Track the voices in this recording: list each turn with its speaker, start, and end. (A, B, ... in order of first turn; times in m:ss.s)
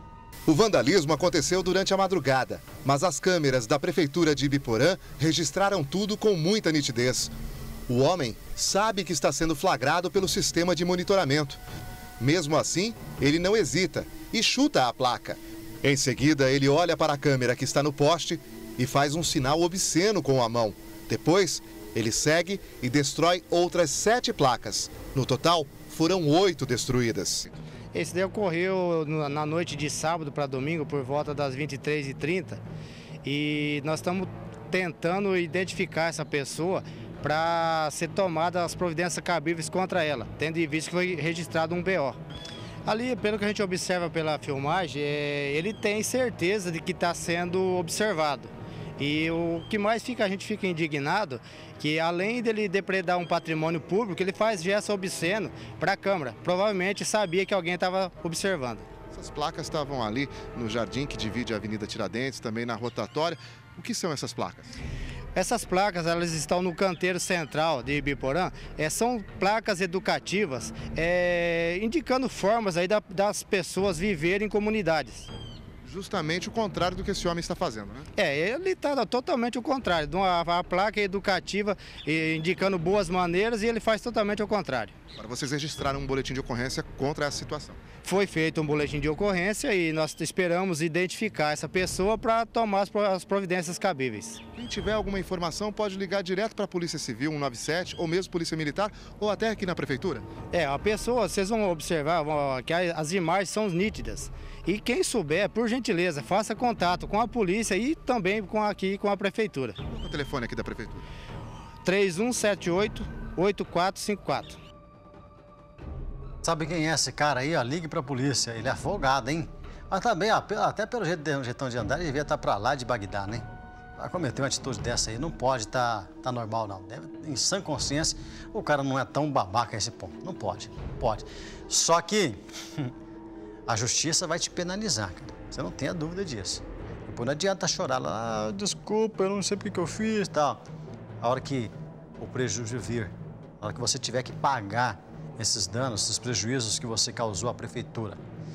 0:00.5-0:07.3 A
0:07.9-0:11.6 A
0:12.2-0:27.5 A
0:27.9-0:32.6 B
0:33.2-0:42.2 B
0:42.8-0:58.9 B
0:59.1-1:04.7 A
1:05.3-1:15.3 B
1:15.8-1:18.1 A
1:18.2-1:24.9 B
1:25.2-1:27.8 A
1:28.0-1:34.4 B
1:34.6-1:40.2 A
1:40.5-1:49.8 B
1:49.9-1:51.1 A
1:51.8-1:54.6 B
1:56.4-2:03.4 C
2:04.0-2:12.9 C
2:13.7-2:20.6 C
2:21.2-2:28.2 C